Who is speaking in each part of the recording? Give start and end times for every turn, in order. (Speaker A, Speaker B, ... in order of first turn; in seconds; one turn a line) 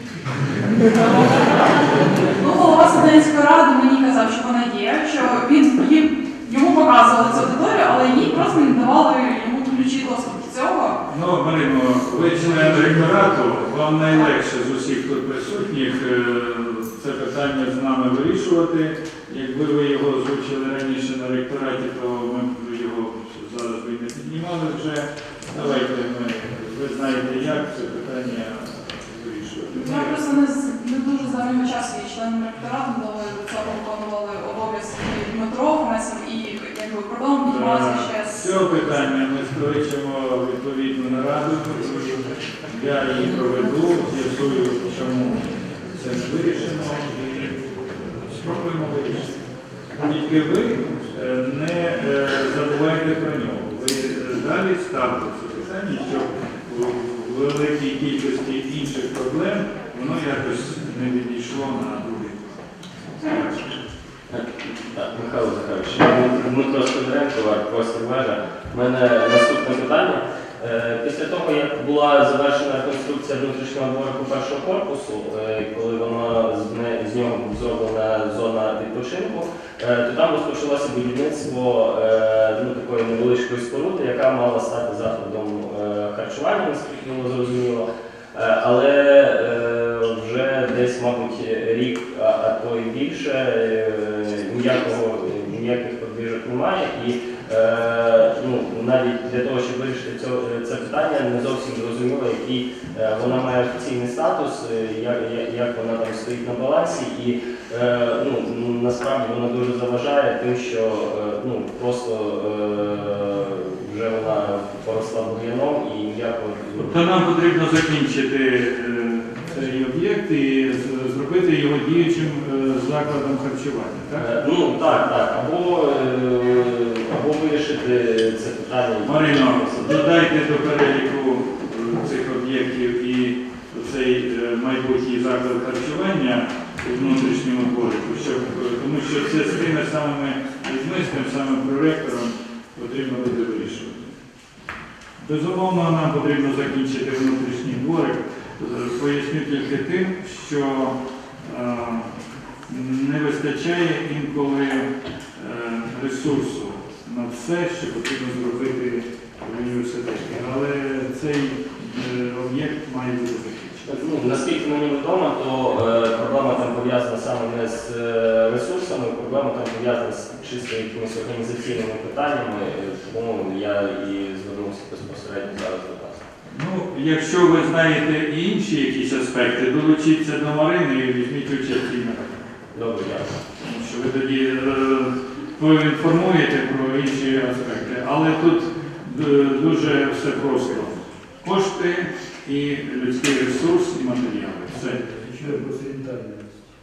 Speaker A: 0.9-11.0
Speaker B: 11.1-30.2
Speaker A: 29.7-38.5
Speaker B: 37.4-49.4
Speaker B: 50.0-62.6
Speaker B: 63.2-63.5
Speaker C: 64.3-117.0
Speaker B: 116.8-124.3
Speaker C: 124.2-130.1
Speaker B: 129.0-144.1
Speaker B: 145.2-152.1
Speaker B: 152.7-163.9
Speaker C: 163.9-176.2
Speaker B: 176.5-182.3
Speaker C: 182.7-183.4
Speaker B: 183.6-195.8